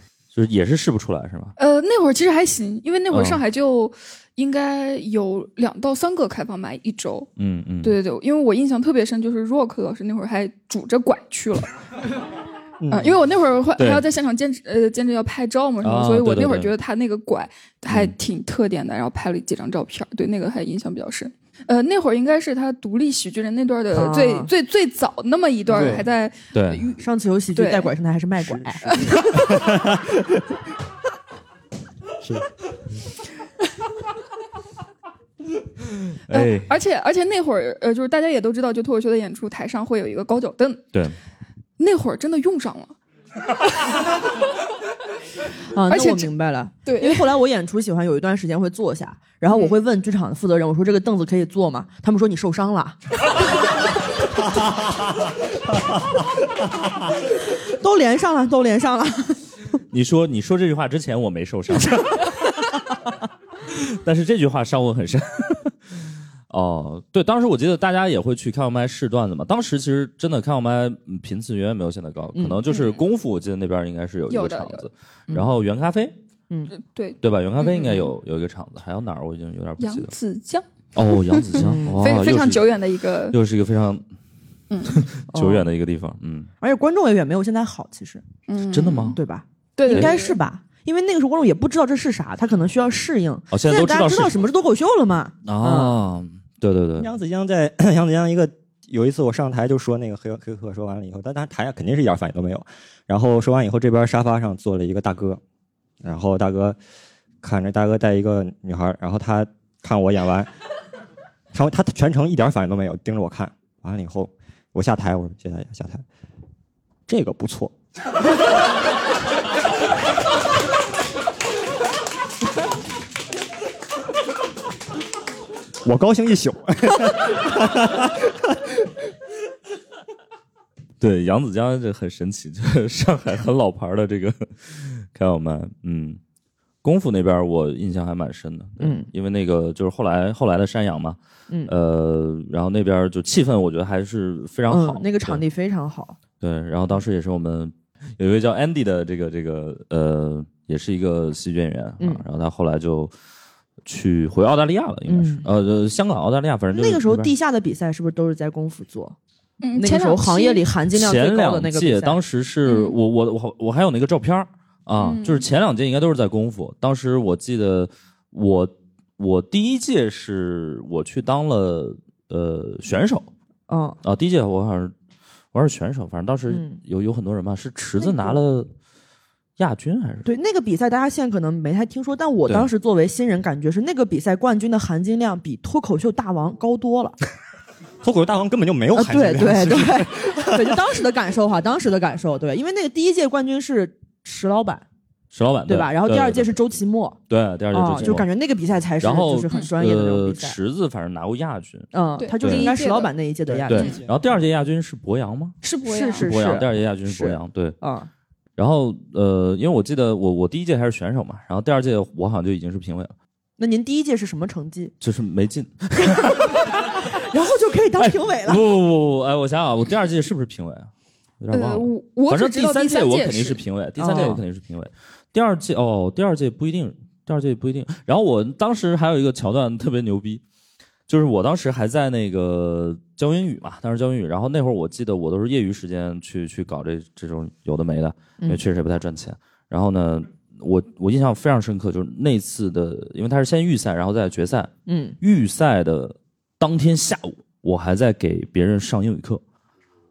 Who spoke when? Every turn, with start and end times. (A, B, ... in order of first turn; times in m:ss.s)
0:00.3-0:01.5 A
0:01.6-0:07.3 B
0:03.1-0:03.4 A
0:07.4-0:08.0 A
0:07.8-0:11.7 B
0:12.8-0:13.2 C
0:12.9-0:27.0 B
0:13.8-0:14.0 A
0:15.8-0:16.7 A
0:17.9-0:18.1 A
0:23.9-0:24.5 D
0:25.7-0:26.0 C
0:26.5-0:26.9 A
0:27.0-0:29.2 D
0:27.5-0:27.9 B
0:28.4-0:30.4 C
0:28.9-0:29.6 B
0:32.2-0:32.4 C
0:36.3-0:36.7 A
0:36.3-0:40.9 B
0:41.8-0:43.0 B
0:45.7-0:53.0 D
0:45.9-0:46.3 B
0:46.8-0:47.3 B
0:49.5-0:49.8 B
0:57.5-0:59.4 D
0:59.9-1:02.6 A
1:03.7-1:05.8 A
1:06.5-1:16.1 A
1:12.3-1:12.6 D
1:12.7-1:13.0 B
1:14.3-1:14.8 B
1:16.7-1:18.1 B
1:17.2-1:20.1 A
1:19.8-1:23.4 B
1:20.9-1:22.8 A
1:21.6-1:22.1 D
1:23.3-1:24.0 A
1:24.7-1:25.0 B
1:24.8-1:26.5 A
1:25.3-1:25.7 D
1:26.6-1:28.2 D
1:28.5-1:29.2 B
1:28.7-1:29.2 A
1:29.1-1:36.0 D
1:29.8-1:30.4 B
1:29.9-1:30.2 A
1:33.5-1:34.4 A
1:35.4-1:37.1 A
1:37.0-1:45.4 C
1:46.0-1:46.8 C
1:47.4-1:50.5 C
1:51.5-1:56.0 C
1:57.1-1:57.7 C
2:05.8-2:08.9 C
2:11.0-2:16.2 A
2:16.8-2:25.4 A
2:18.8-2:19.1 D
2:24.7-2:26.2 D
2:26.4-2:33.1 A
2:33.8-2:37.3 A
2:35.1-2:35.5 D
2:36.7-2:39.2 D
2:39.6-2:40.6 B
2:39.8-2:42.2 D
2:40.9-2:53.3 A
2:42.6-2:43.0 B
2:45.0-2:45.5 B
2:53.7-2:54.0 D
2:54.0-2:54.9 A
2:55.5-2:58.7 A
2:56.5-2:56.8 D
2:58.0-2:58.4 D
2:59.6-3:00.3 A
3:00.2-3:07.1 D
3:08.0-3:10.8 C
3:08.9-3:14.8 D
3:15.3-3:16.5 A
3:15.7-3:17.2 D
3:17.3-3:18.3 A
3:17.7-3:20.6 D
3:19.0-3:22.7 A
3:21.9-3:23.9 D
3:22.2-3:23.1 B
3:23.5-3:24.2 C
3:23.7-3:25.6 A
3:23.7-3:24.0 B
3:25.6-3:26.3 B
3:25.8-3:28.1 D
3:26.2-3:27.8 A
3:28.6-3:33.1 A
3:33.6-3:34.9 D
3:35.0-3:36.6 A
3:36.0-3:38.6 D
3:38.0-3:40.9 A
3:41.4-3:50.4 A
3:41.5-3:43.6 B
3:44.0-3:44.4 D
3:51.1-4:09.4 A
4:04.9-4:05.2 D